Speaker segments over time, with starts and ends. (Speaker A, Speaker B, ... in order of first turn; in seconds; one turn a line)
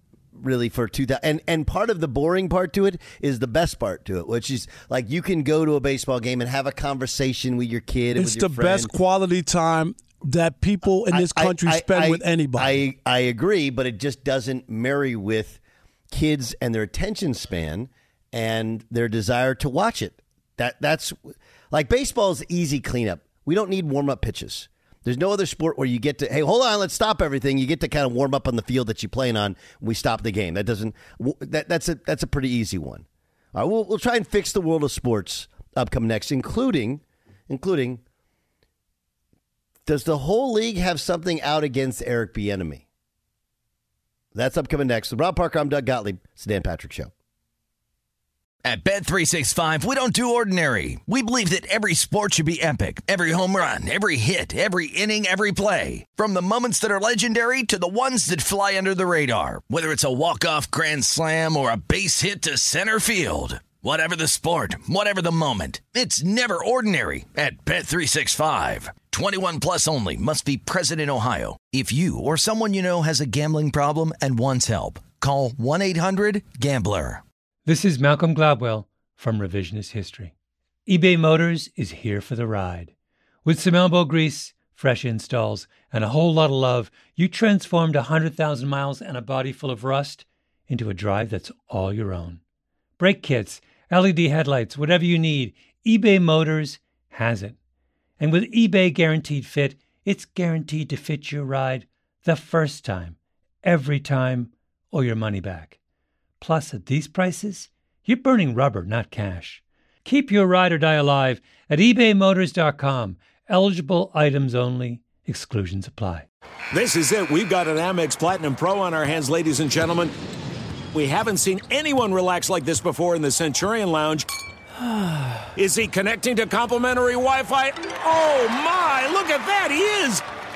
Speaker A: 0.3-8.9
Speaker B: 8.2-12.8
Speaker A: 11.1-15.6
Speaker A: 16.1-38.0
Speaker A: 39.9-42.8
Speaker A: 44.3-47.1
Speaker C: 48.6-77.2
Speaker D: 77.7-80.3
Speaker D: 80.9-82.9
Speaker D: 83.4-92.4
Speaker D: 93.0-97.5
Speaker D: 98.2-105.8
Speaker D: 106.4-116.2
Speaker E: 116.7-120.1
Speaker E: 120.9-124.2
Speaker E: 125.5-130.2